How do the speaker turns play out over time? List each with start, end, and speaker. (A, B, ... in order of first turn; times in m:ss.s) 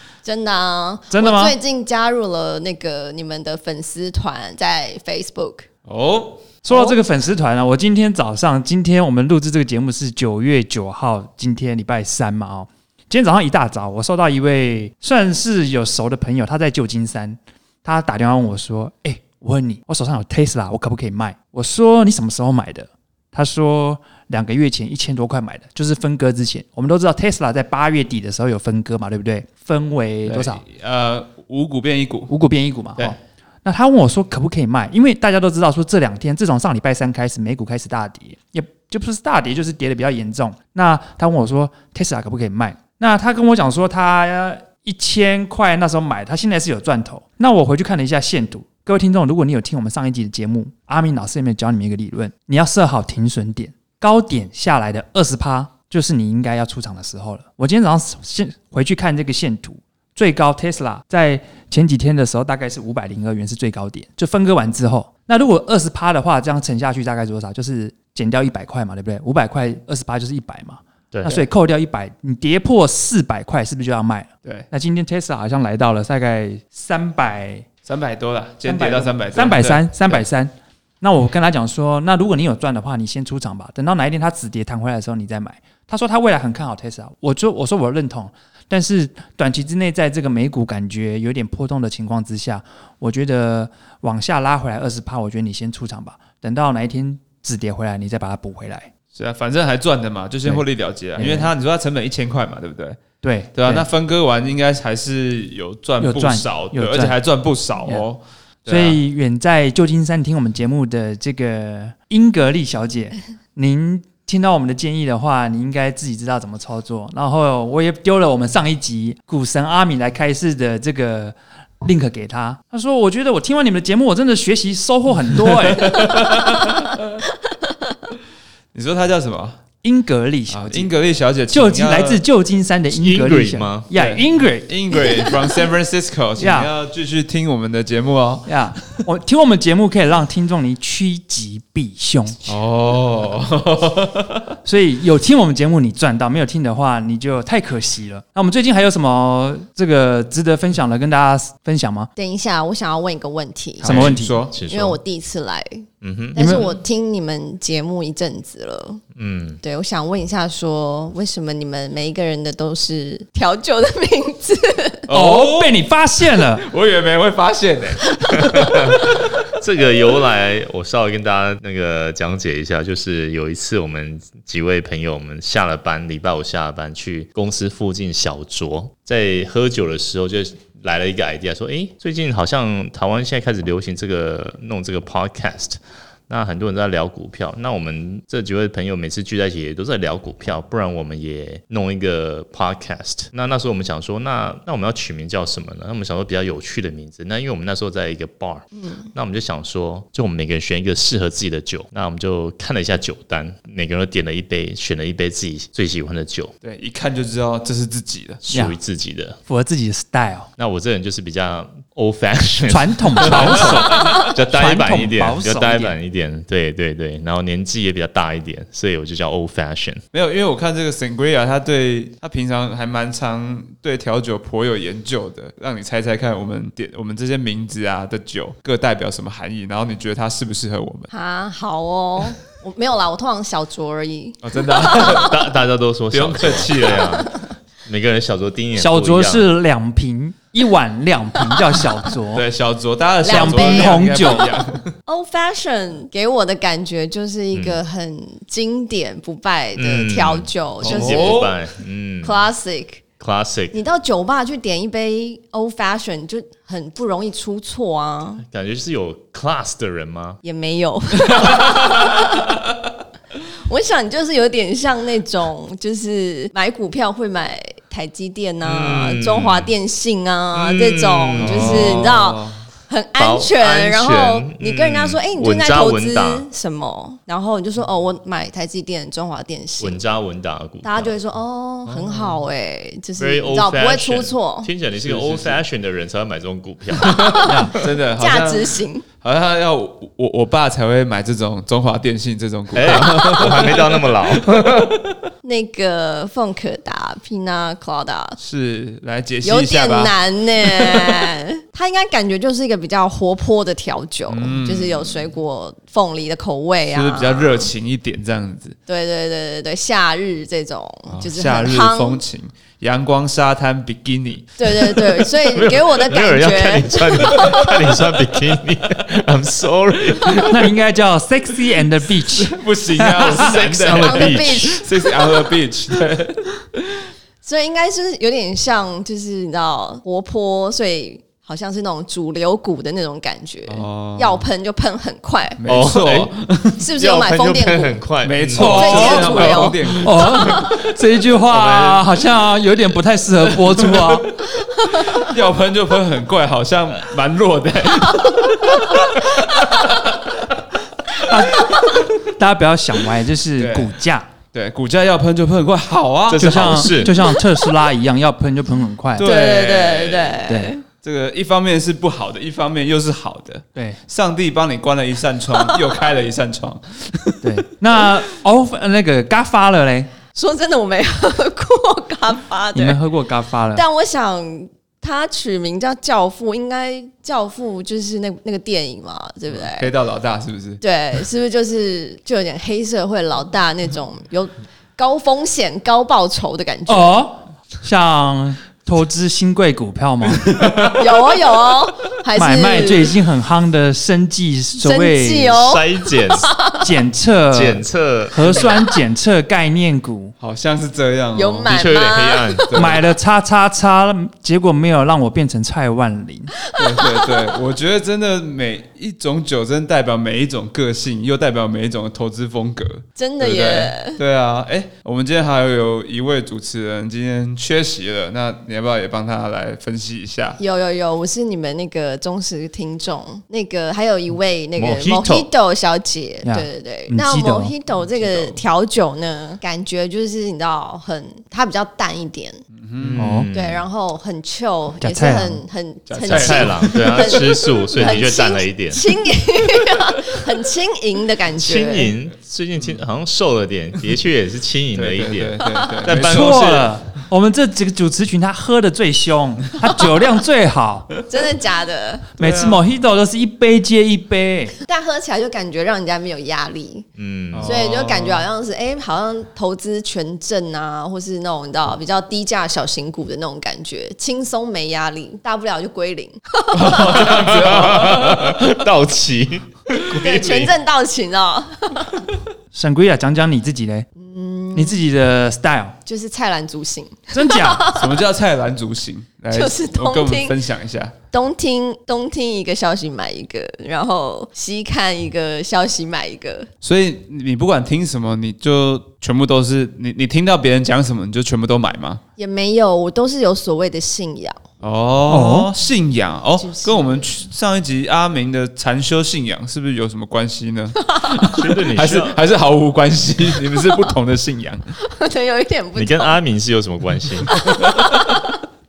0:00.2-0:05.7 A
0:01.1-0:01.5 B
0:05.9-0:06.5 C
0:06.6-0:30.6 B
0:06.7-0:07.0 A
0:30.3-0:32.3 C
0:32.3-1:17.7 B
1:11.1-1:11.4 D
1:17.8-1:20.2 C
1:18.7-1:38.9 B
1:39.1-1:43.0 C
1:41.2-1:41.5 B
1:43.2-1:43.9 B
1:43.6-1:49.0 C
1:46.0-1:47.2 B
1:48.7-2:06.2 B
2:05.5-2:07.2 C
2:08.7-2:09.6 C
2:09.8-2:10.9 B
2:10.5-2:12.2 C
2:11.5-2:15.1 B
2:12.9-2:13.9 D
2:13.9-2:19.0 C
2:14.9-2:15.5 A
2:16.4-2:16.7 B
2:18.5-2:22.4 B
2:22.4-2:24.4 C
2:24.6-2:32.1 B
2:32.2-2:34.1 A
2:33.8-2:34.5 B
2:33.8-2:34.6 C
2:34.5-2:35.0 D
2:34.6-2:39.0 A
2:36.0-2:36.4 D
2:36.4-2:36.7 B
2:39.2-2:39.6 D
2:39.6-2:45.1 A
2:45.1-2:45.8 C
2:45.1-2:46.6 B
2:46.3-2:49.3 C
2:48.5-3:26.5 D
3:18.8-3:19.1 A
3:26.6-3:28.4 C
3:28.4-3:29.4 D
3:28.5-3:28.8 B
3:29.5-3:30.5 B
3:30.6-3:40.0 D
3:32.7-3:36.0 B
3:33.2-3:34.2 C
3:40.1-3:51.1 C
3:51.1-3:55.3 A
3:54.4-3:55.4 C
3:55.0-3:59.5 D
3:56.1-3:57.2 C
3:58.8-4:02.4 B
4:02.3-4:04.9 C
4:03.2-4:04.5 A
4:03.3-4:04.5 B
4:05.1-4:11.5 A
4:07.5-4:07.8 D
4:09.8-4:12.4 D
4:10.8-4:11.5 C
4:12.2-4:13.0 A
4:13.2-4:13.8 D
4:13.7-4:18.4 A
4:18.4-4:20.4 D
4:20.4-4:22.5 A
4:23.7-4:40.0 A
4:28.6-4:29.7 D
4:30.5-4:32.1 D
4:31.4-4:32.6 C
4:33.2-4:36.5 D
4:39.8-4:41.1 D
4:40.8-4:44.7 A
4:41.9-4:42.4 C
4:43.2-4:47.7 D
4:45.0-4:45.6 C
4:47.0-4:49.0 A
4:47.3-4:55.0 C
4:47.4-4:47.8 B
4:52.7-4:55.0 D
4:55.4-4:58.4 A
4:58.4-5:01.3 C
4:59.4-5:07.7 A
5:04.3-5:05.3 C
5:06.9-5:08.8 C
5:08.9-5:12.2 A
5:11.1-5:15.3 C
5:14.6-5:17.8 A
5:15.5-5:20.6 D
5:20.4-5:23.4 B
5:22.3-5:27.0 C
5:23.2-5:24.8 D
5:23.8-5:25.4 A
5:27.4-5:35.6 A
5:33.7-5:34.5 C
5:35.6-5:36.8 C
5:35.6-5:36.3 D
5:36.8-5:38.0 A
5:36.9-5:39.6 D
5:38.2-5:40.6 C
5:38.6-5:44.3 B
5:38.6-5:40.0 A
5:40.5-5:40.8 D
5:41.5-5:42.1 D
5:43.6-5:50.4 C
5:51.1-5:52.0 C
5:51.2-5:54.3 B
5:53.6-5:53.9 C
5:54.5-5:57.1 C
5:56.3-5:57.1 D
5:56.4-5:59.3 B
5:59.2-6:00.5 C
5:59.2-6:00.8 A
6:00.5-6:00.7 B
6:01.0-6:08.1 C
6:07.4-6:10.1 B
6:10.3-6:13.0 A
6:12.7-6:13.8 B
6:13.7-6:19.9 A
6:19.5-6:20.8 C
6:20.8-6:27.2 A
6:26.9-6:30.8 B
6:30.4-6:31.3 C
6:30.9-6:33.1 A
6:32.4-6:35.6 B
6:34.8-6:36.9 A
6:35.5-6:36.5 D
6:36.8-6:40.3 B
6:37.5-6:38.7 D
6:38.6-6:38.8 A
6:40.4-6:41.8 C
6:41.4-6:42.7 A
6:41.7-6:42.7 D
6:42.6-6:43.0 C
6:42.7-6:46.5 B
6:46.8-7:00.6 C
6:46.8-6:47.3 A
6:53.2-6:54.2 A
7:00.6-7:12.6 A
7:04.8-7:05.5 D
7:06.4-7:07.7 B
7:08.0-7:08.6 C
7:12.7-7:13.3 C
7:13.0-7:13.8 D
7:13.2-7:13.5 B
7:13.5-7:22.1 A
7:15.0-7:15.6 B
7:16.1-7:17.6 C
7:16.3-7:19.0 D
7:21.6-7:26.9 D
7:24.9-7:26.9 C
7:26.1-7:31.1 B
7:31.3-7:32.3 A
7:32.4-7:34.7 B
7:32.4-7:32.8 C
7:34.8-7:37.1 A
7:37.2-7:37.8 D
7:37.5-7:38.5 C
7:37.6-7:47.3 A
7:46.7-7:48.7 C
7:47.0-7:50.7 D
7:50.1-7:52.2 A
7:52.7-7:54.1 B
7:54.2-7:55.0 A
7:54.7-7:56.0 B
7:56.1-7:58.2 A
7:57.3-7:57.9 B
7:57.9-8:01.1 C
7:59.5-8:00.6 A
8:01.3-8:06.7 A
8:06.8-8:12.2 C
8:12.4-8:14.6 A
8:14.8-8:24.9 C
8:15.3-8:15.7 B
8:16.6-8:17.3 A
8:21.5-8:22.4 D
8:25.0-8:26.4 A
8:26.0-8:27.7 D
8:27.5-8:28.6 A